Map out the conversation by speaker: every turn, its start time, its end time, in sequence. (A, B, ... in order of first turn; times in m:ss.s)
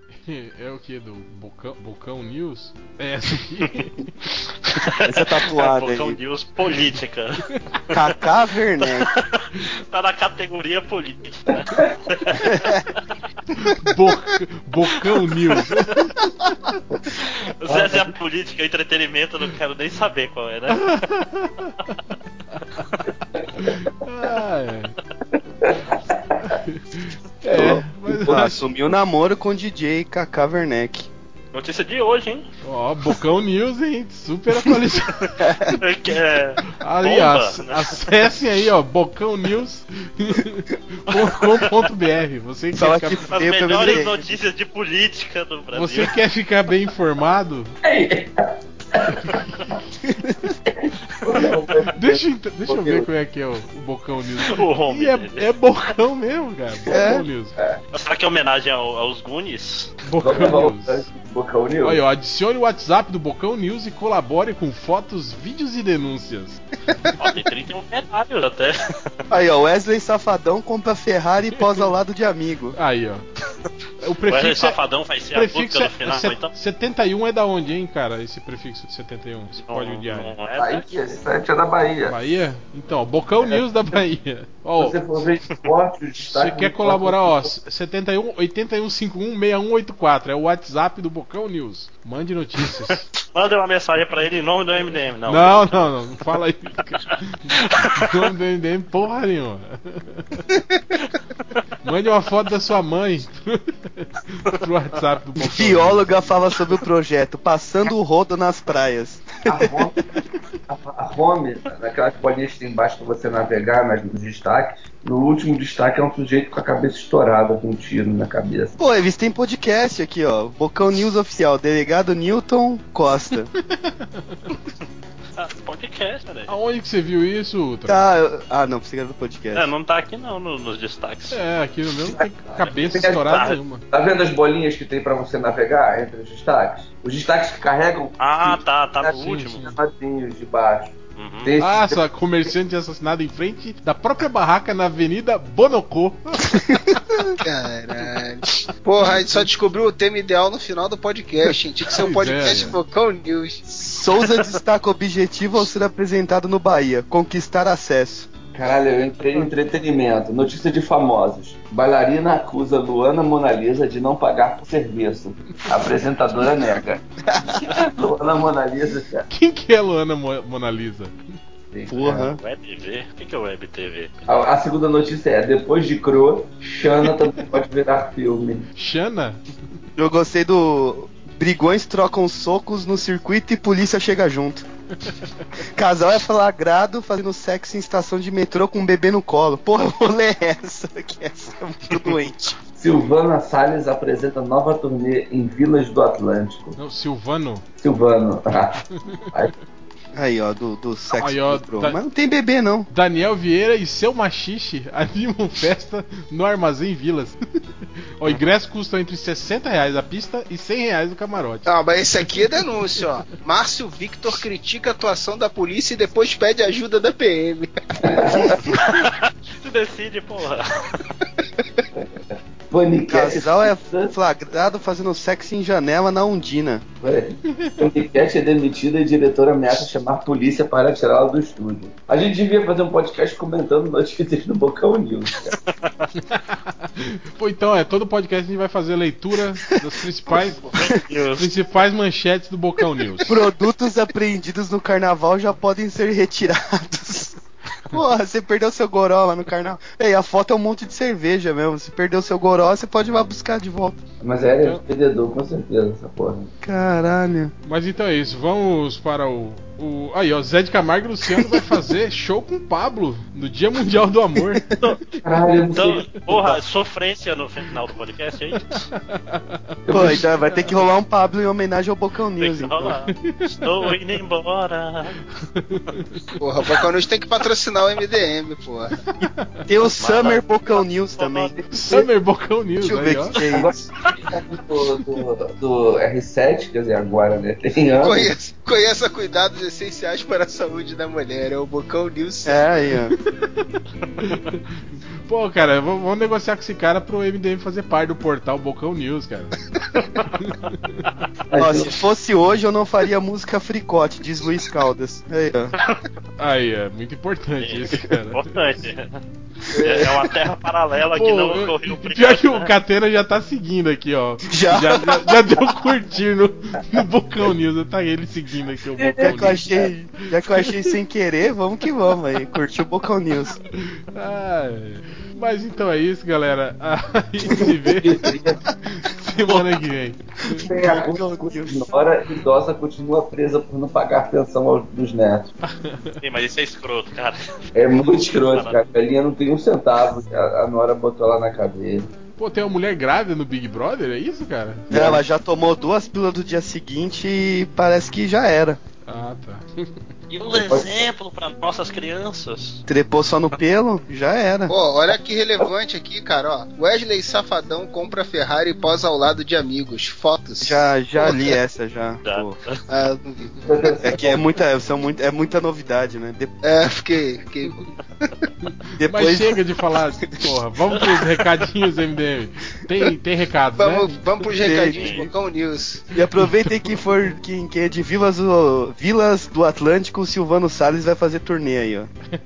0:00.2-0:04.1 A
0:04.8-0:08.0 B
0:05.0-0:06.2 C
0:07.9-0:09.1 C
0:08.8-0:13.2 B
0:13.6-0:16.1 A
0:17.1-0:21.0 B
0:17.6-0:18.1 D
0:20.7-0:21.7 A
0:23.6-0:24.9 A
0:25.6-0:26.6 D
0:26.5-0:28.7 A
0:27.5-0:31.1 C
0:31.5-0:32.4 B
0:32.6-0:35.3 A
0:35.4-0:35.8 C
0:35.8-0:38.1 B
0:36.7-0:43.4 A
0:42.7-0:44.3 C
0:43.3-0:46.1 B
0:45.7-0:47.7 A
0:47.8-0:48.3 D
0:48.9-0:49.7 D
0:50.0-0:50.5 C
0:50.7-0:53.1 D
0:51.9-0:57.5 A
0:54.5-0:55.5 B
0:56.9-0:57.2 C
0:57.9-1:00.0 B
1:00.0-1:01.0 A
1:00.2-1:02.0 D
1:01.8-1:06.6 A
1:07.2-1:09.0 B
1:09.3-1:12.8 C
1:12.7-1:13.2 A
1:14.0-1:14.8 A
1:14.3-1:16.5 B
1:15.3-1:20.3 A
1:19.6-1:20.9 B
1:20.6-1:22.2 D
1:22.0-1:25.0 A
1:24.8-1:27.5 D
1:26.3-1:33.1 A
1:33.3-1:35.8 B
1:35.3-1:40.4 A
1:41.0-1:41.6 B
1:41.8-1:46.2 A
1:45.4-1:49.3 C
1:49.5-1:50.0 D
1:50.7-1:58.8 D
1:58.8-2:03.5 C
2:05.4-2:06.6 B
2:06.5-2:08.0 A
2:07.8-2:09.7 C
2:09.5-2:11.4 B
2:11.3-2:13.8 A
2:12.6-2:13.6 B
2:12.9-2:13.4 D
2:13.9-2:22.0 D
2:18.2-2:19.6 B
2:19.2-2:19.7 A
2:21.2-2:21.5 B
2:21.6-2:26.5 A
2:27.4-2:33.7 E
2:32.0-2:32.8 A
2:33.7-2:38.3 C
2:38.5-2:47.0 D
2:47.6-2:49.3 D
2:49.3-2:51.2 A
2:51.7-2:52.3 D
2:51.9-2:52.4 C
2:52.3-2:54.2 B
2:54.2-2:58.7 D
2:58.8-2:59.4 A
3:00.0-3:04.6 C
3:05.8-3:12.6 C
3:12.7-3:16.8 D
3:16.8-3:17.6 A
3:17.8-3:19.5 D
3:20.1-3:22.9 C
3:21.2-3:22.0 A
3:22.9-3:27.4 A
3:28.2-3:31.7 A
3:31.6-3:37.7 E
3:38.0-3:38.6 D
3:38.8-3:39.1 B
3:39.6-3:41.0 B
3:42.7-3:44.1 D
3:43.1-3:46.8 C
3:47.0-3:55.5 D
3:47.5-3:47.8 A
3:56.3-4:00.6 A
4:00.7-4:01.5 B
4:01.4-4:03.3 A
4:03.3-4:07.4 C
4:07.9-4:14.0 C
4:14.2-4:16.5 D
4:16.6-4:17.5 C
4:17.6-4:24.7 A
4:25.2-4:26.1 D
4:25.7-4:28.8 B
4:29.0-4:30.8 A
4:29.8-4:30.2 D
4:29.9-4:32.9 C
4:32.4-4:35.1 B
4:33.1-4:33.6 A
4:35.6-4:36.0 A
4:36.4-4:38.9 E
4:38.9-4:39.4 A
4:39.2-4:42.1 C
4:40.0-4:41.5 B
4:41.7-4:43.4 A
4:42.8-4:43.8 C
4:43.5-4:48.3 D
4:48.0-4:52.6 E
4:52.4-4:53.1 C
4:54.2-4:59.6 A
5:00.0-5:00.3 B
5:00.3-5:01.0 A
5:01.5-5:02.0 D
5:01.5-5:05.7 C
5:06.4-5:08.5 A
5:08.3-5:09.2 B
5:09.7-5:10.2 C
5:09.8-5:12.7 B
5:11.1-5:19.6 A
5:14.5-5:15.4 C
5:19.0-5:19.3 D
5:19.2-5:23.6 C
5:20.4-5:20.9 A
5:24.1-5:28.2 A
5:28.0-5:28.6 D
5:28.8-5:30.7 A
5:30.5-5:31.8 C
5:30.7-5:35.5 D
5:35.8-5:36.2 A
5:36.2-5:37.4 B
5:37.7-5:42.1 D
5:38.1-5:38.8 B
5:42.4-5:44.9 A
5:44.9-5:48.8 C
5:49.0-5:49.7 A
5:50.3-5:52.8 B
5:50.5-5:51.1 D
5:52.9-5:54.7 C
5:54.7-6:01.0 E
6:00.6-6:02.5 C
6:02.2-6:02.8 B
6:02.9-6:04.2 E
6:03.6-6:04.4 D
6:04.0-6:06.6 C
6:06.7-6:08.3 E
6:08.6-6:14.4 A
6:09.0-6:09.5 C
6:13.8-6:16.0 E
6:14.6-6:15.3 C
6:14.9-6:15.2 B
6:16.1-6:22.1 C
6:16.4-6:16.9 A